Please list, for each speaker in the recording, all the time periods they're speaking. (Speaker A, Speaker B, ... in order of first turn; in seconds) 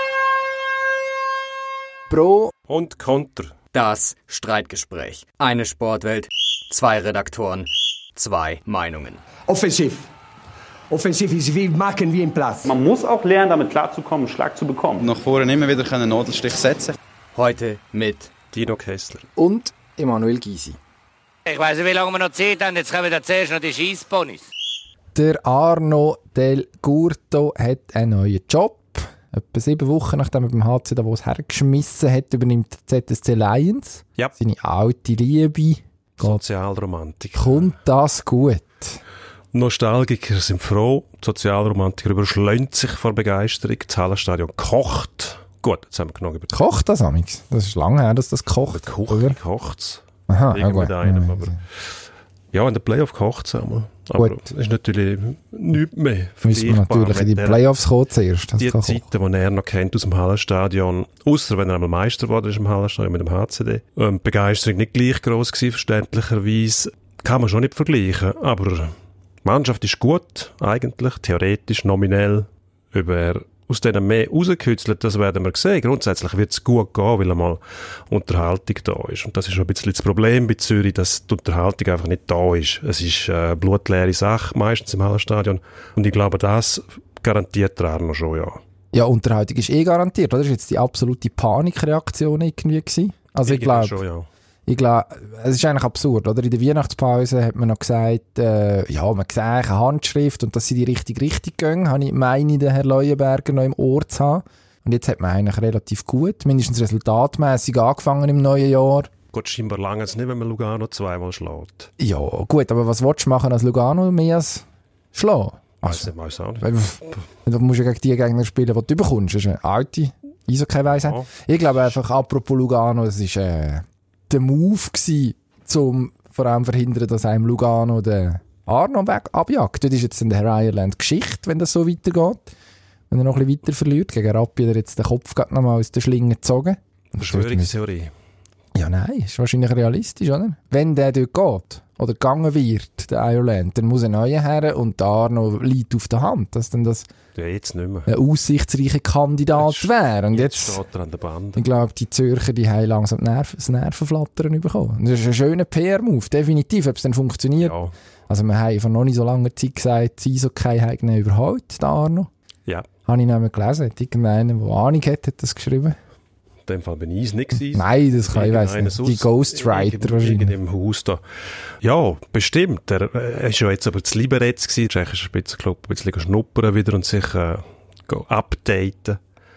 Speaker A: 2.1-2.5, 19.4-20.8, 25.1-36.4, 37.4-39.0, 46.5-49.4, 50.3-51.6, 56.4-59.0, 88.9-94.0, 94.7-109.1, 112.0-132.5, 133.1-137.7, 138.7-147.1, 148.1-150.8, 151.6-157.8, 158.3-162.3, 163.1-166.0, 167.7-170.6
Speaker B: 2.7-3.5, 18.5-19.3, 36.2-37.7, 39.5-46.7, 48.7-51.6, 52.5-57.6, 58.6-88.6, 93.4-94.3, 109.3-111.9, 115.8-116.7, 120.9-121.3, 137.2-138.1, 147.3-148.1, 149.6-151.7, 157.6-157.9, 166.7-171.2, 171.8-179.2
Speaker C: 3.7-9.2, 17.4-18.3
Speaker D: 9.5-10.1, 10.9-12.8
Speaker E: 12.7-15.1
Speaker F: 15.0-17.0
Speaker G: 21.5-24.5